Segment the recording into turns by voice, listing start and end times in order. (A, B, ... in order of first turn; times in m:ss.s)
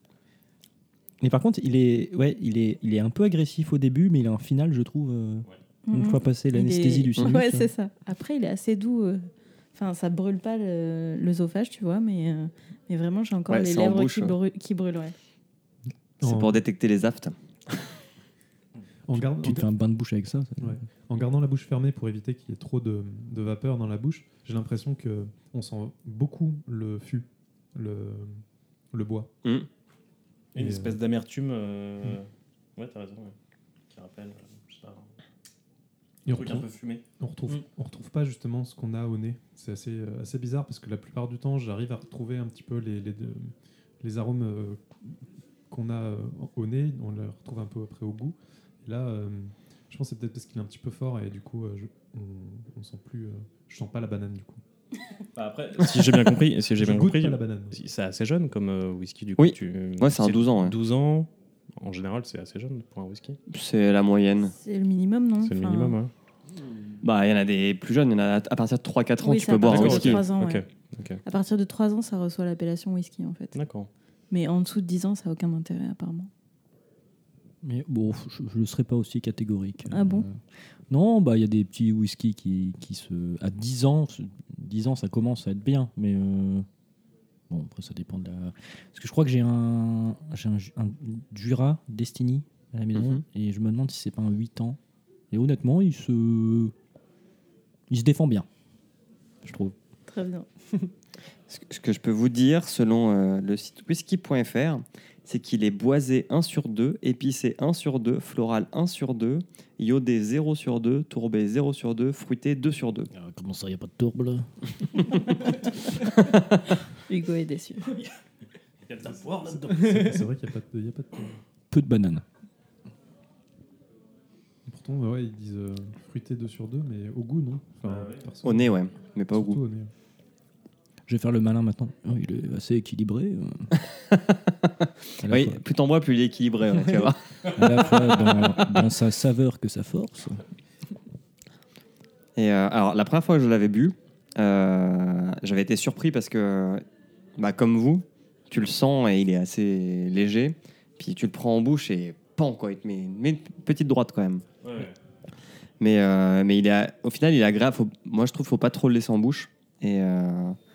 0:01.2-0:07.7 A
0:05.9-0:15.1 B
0:13.5-0:14.4 C
0:16.2-0:16.6 D
0:16.2-0:17.3 C
0:19.0-0:19.7 D
0:19.1-0:20.8 A
0:20.6-0:29.3 D
0:30.5-0:33.3 E
0:30.6-0:31.0 D
0:33.9-0:35.1 E
0:36.2-0:54.6 D
0:36.3-0:37.0 E
0:55.3-1:03.4 E
0:56.8-0:57.8 D
0:59.4-1:00.8 C
1:03.5-1:04.5 C
1:04.5-1:06.0 B
1:05.4-1:06.1 E
1:07.0-1:10.3 C
1:09.2-1:10.6 B
1:09.6-1:11.2 E
1:11.2-1:13.5 B
1:13.5-1:13.9 E
1:14.3-1:16.3 B
1:17.6-1:20.4 A
1:19.9-1:20.3 B
1:20.9-1:26.7 A
1:27.5-1:34.8 A
1:32.9-1:33.2 C
1:35.3-1:36.7 A
1:37.9-1:38.4 A
1:39.4-1:39.7 A
1:40.1-1:40.5 B
1:41.5-1:53.1 C
1:53.1-1:54.5 A
1:57.1-1:57.9 B
1:58.8-1:59.9 E
1:59.4-2:01.4 D
2:01.7-2:02.2 A
2:04.6-2:09.9 D
2:07.8-2:08.3 E
2:08.4-2:09.6 C
2:11.1-2:13.7 A
2:13.8-2:14.7 C
2:15.2-2:15.6 A
2:15.2-2:17.2 C
2:17.5-2:20.4 A
2:17.7-2:18.7 E
2:22.4-2:26.8 C
2:27.4-2:34.4 C
2:34.6-2:35.0 E
2:35.8-2:40.6 C